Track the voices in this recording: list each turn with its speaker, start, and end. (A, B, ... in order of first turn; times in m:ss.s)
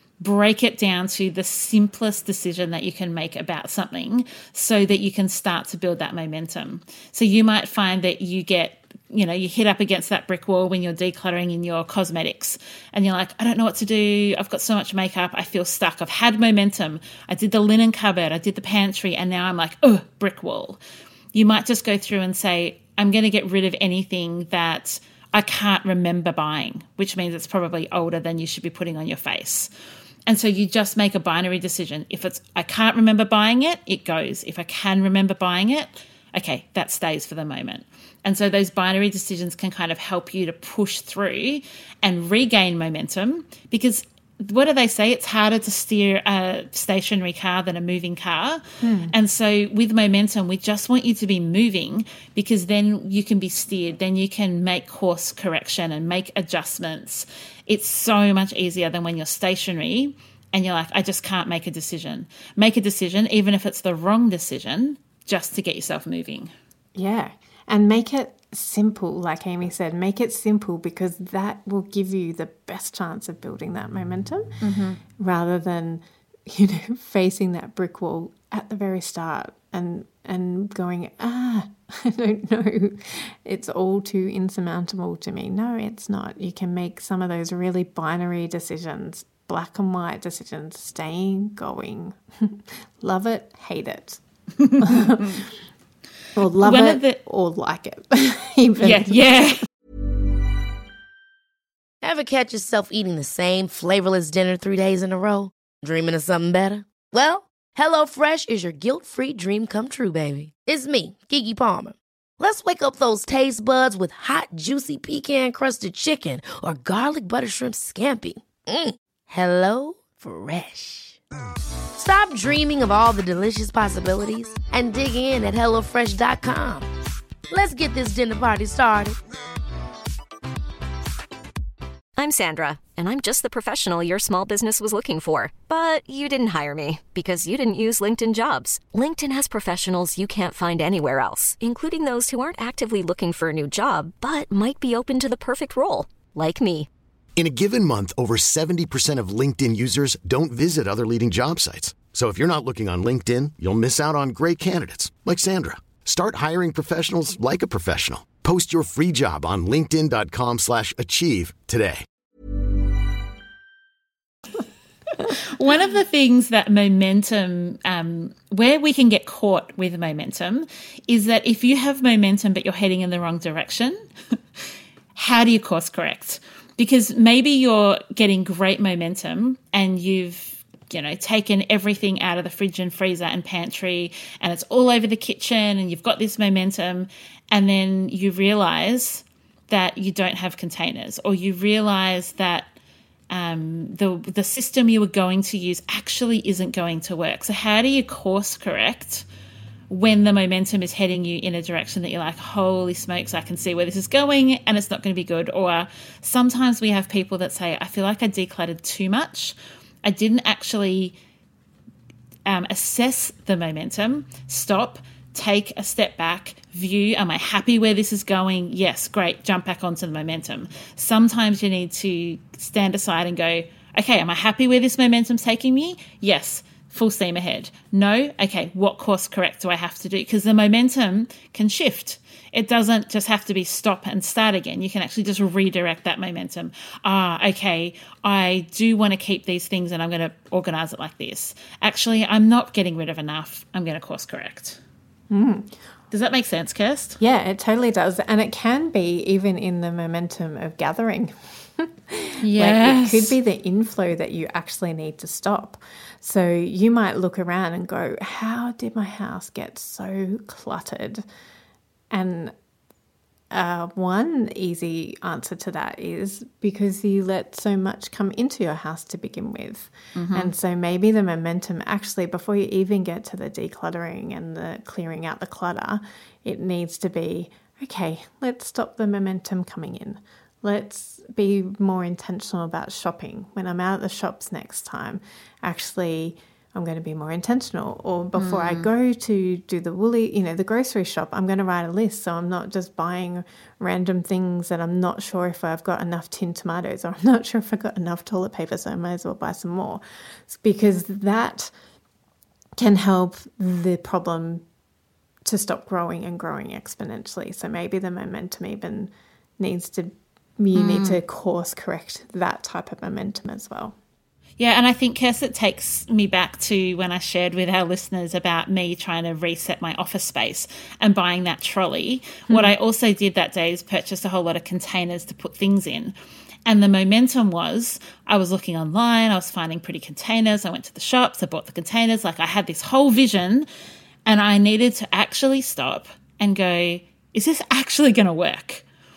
0:00.2-0:20.8 A
0:21.3-0:29.7 A
0:30.3-1:06.5 A
0:48.8-0:49.1 B
1:06.9-1:14.5 B
1:14.6-1:15.0 A
1:15.2-1:34.2 B
1:34.6-1:35.0 A
1:34.8-1:35.5 B
1:36.4-1:39.4 B
1:36.6-1:37.2 A
1:38.8-1:39.6 A
1:42.0-2:01.2 C
2:01.9-2:06.9 C
2:07.5-2:09.2 C
2:12.2-2:26.9 D
2:27.4-2:42.0 E
2:45.2-2:54.0 A
2:55.1-3:12.7 A
3:13.3-3:19.2 A
3:19.9-3:31.1 A
3:32.4-4:04.8 A
4:05.3-4:05.7 B
4:06.1-4:07.2 A
4:07.2-4:21.2 B
4:12.4-4:13.4 A
4:22.1-4:22.5 B
4:23.5-5:01.7 B
4:30.2-4:30.5 A
4:48.4-4:48.8 A
5:02.8-5:04.6 B
5:05.4-5:13.9 B
5:10.7-5:11.2 A
5:14.6-5:26.1 A
5:22.5-5:22.7 B
5:26.6-5:33.6 A
5:34.2-5:38.8 A